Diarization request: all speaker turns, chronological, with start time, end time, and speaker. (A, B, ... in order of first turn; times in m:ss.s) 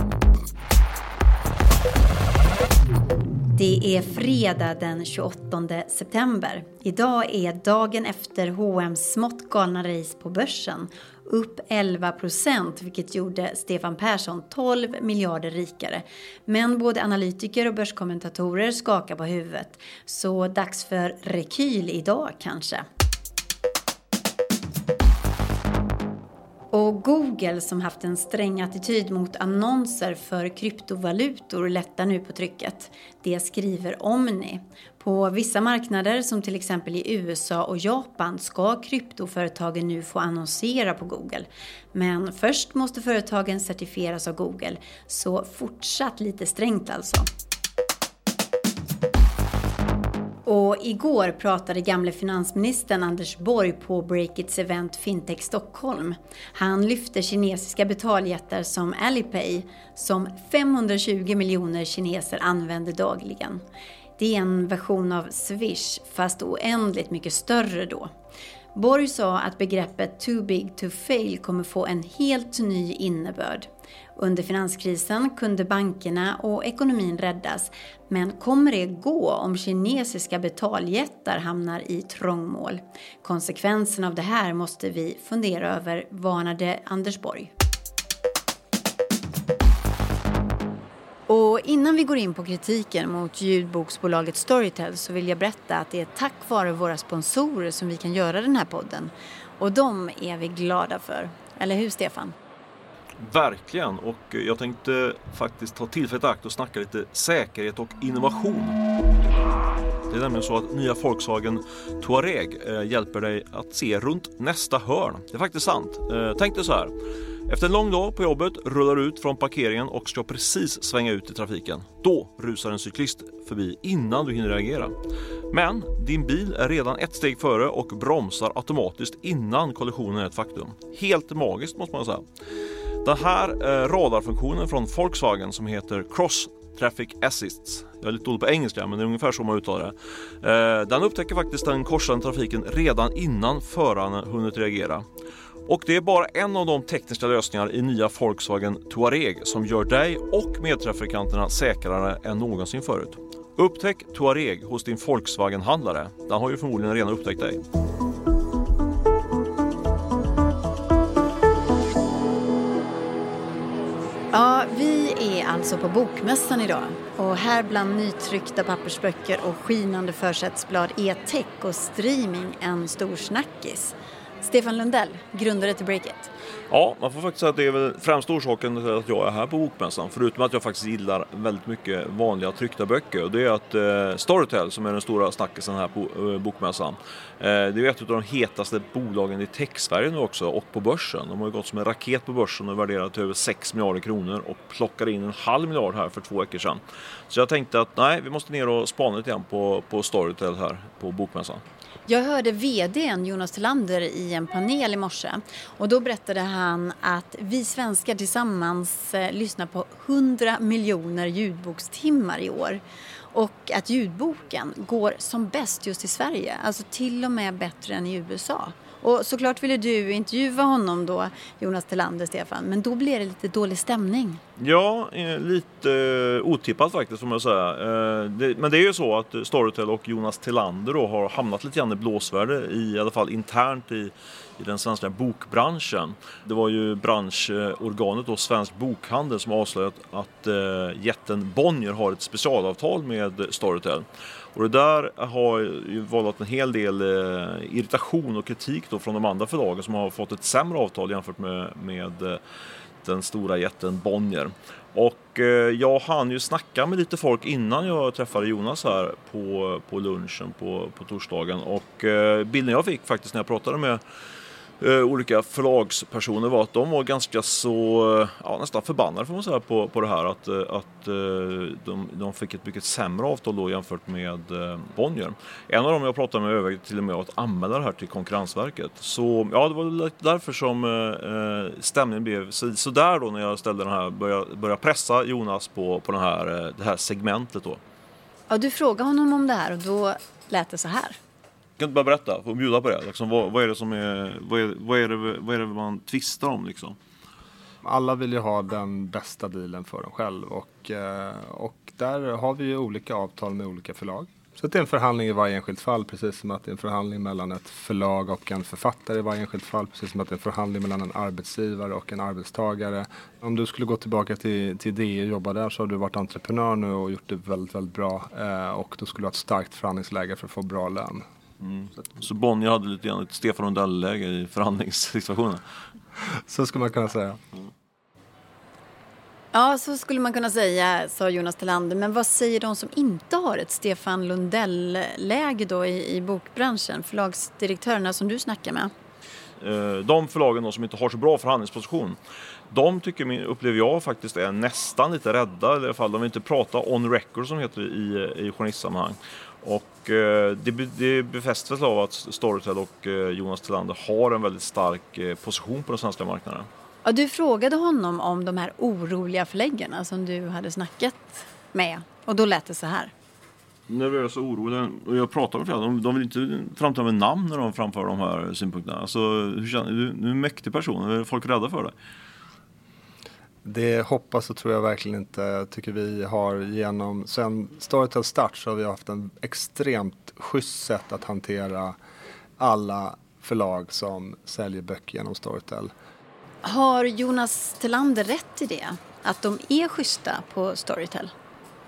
0:03.6-0:22.8 A
0:26.7-0:47.3 A
0:50.5-1:03.6 A
1:04.2-1:08.1 A
1:08.8-1:27.5 A
1:31.3-1:42.3 A
1:43.2-1:48.8 B
1:50.1-1:56.9 B
1:57.5-2:04.9 B
2:05.5-2:12.2 B
2:13.0-2:25.0 B
2:25.7-2:37.6 B
2:44.3-2:56.3 A
2:56.7-3:21.6 B
3:22.1-3:32.8 A
3:33.3-3:44.4 A
3:44.6-4:12.4 B
4:13.0-4:24.0 B
4:24.8-4:47.8 B
4:48.5-4:51.2 A
4:51.8-4:57.0 B
4:57.8-5:21.2 C
5:21.6-5:25.6 B
5:26.5-5:27.4 C
5:29.5-5:38.9 A
5:39.6-5:42.2 B
5:42.7-5:56.7 B
5:57.0-6:03.1 A
6:03.9-6:11.9 B
6:13.6-6:22.0 C
6:22.6-6:25.9 C
6:26.6-6:31.3 A